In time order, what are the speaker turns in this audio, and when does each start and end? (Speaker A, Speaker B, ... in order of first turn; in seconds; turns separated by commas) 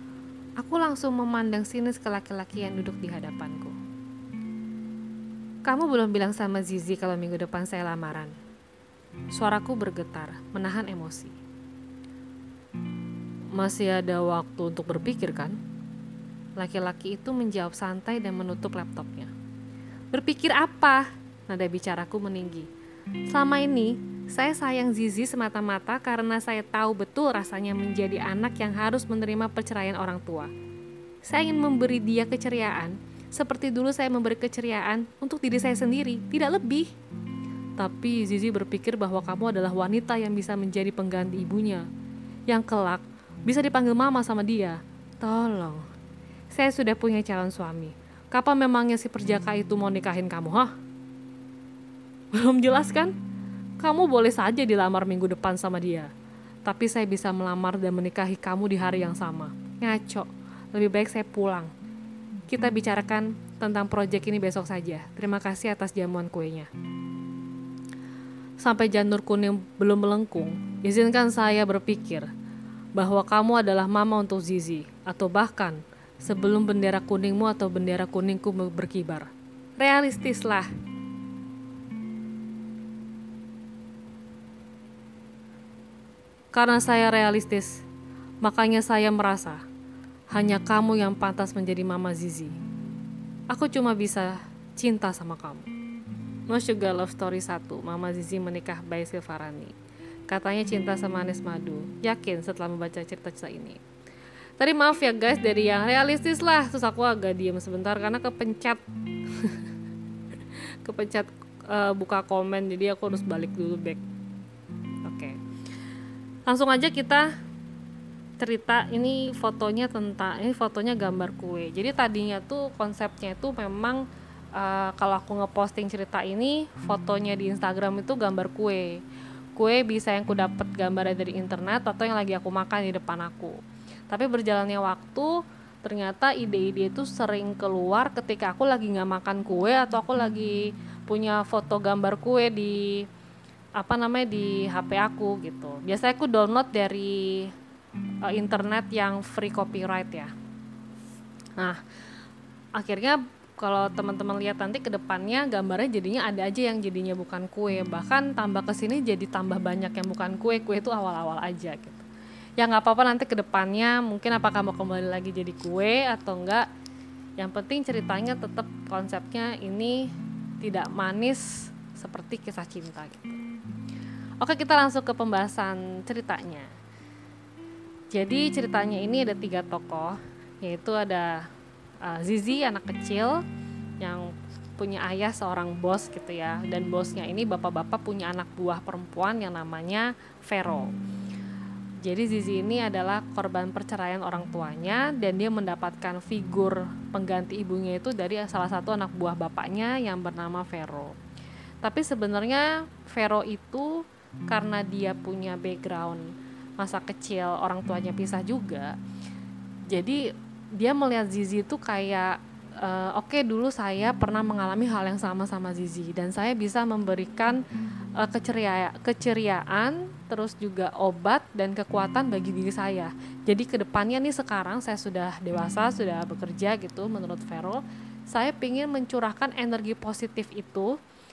Speaker A: 0.6-3.8, Speaker A: 5.6-8.3, Speaker A: 9.3-11.4, Speaker A: 13.5-15.6, Speaker A: 16.6-19.3, Speaker A: 20.1-22.7, Speaker A: 23.3-30.5, Speaker A: 31.2-36.9, Speaker A: 37.8-41.9, Speaker A: 42.5-45.9, Speaker A: 46.5-50.7, Speaker A: 52.3-53.1, Speaker A: 53.8-56.1, Speaker A: 56.6-61.7, Speaker A: 62.5-66.7, Speaker A: 68.6-72.3, Speaker A: 73.0-80.7, Speaker A: 86.5-87.8, Speaker A: 88.4-89.6, Speaker A: 90.3-92.5, Speaker A: 93.5-95.7, Speaker A: 96.5-99.7, Speaker A: 100.3-103.8, Speaker A: 104.6-109.7, Speaker A: 110.8-114.0, Speaker A: 115.0-115.4, Speaker A: 116.5-117.3, Speaker A: 118.4-124.0, Speaker A: 124.5-129.0, Speaker A: 129.6-133.6, Speaker A: 134.1-143.1, Speaker A: 143.8-147.5, Speaker A: 148.2-150.3, Speaker A: 152.8-162.1, Speaker A: 162.6-166.7, Speaker A: 167.4-170.1, Speaker A: 170.6-173.4, Speaker A: 174.4-176.7, Speaker A: 178.1-181.4, Speaker A: 182.0-183.4, Speaker A: 184.0-190.9, Speaker A: 192.0-201.2, Speaker A: 201.8-208.9, Speaker A: 209.9-217.6, Speaker A: 218.2-230.9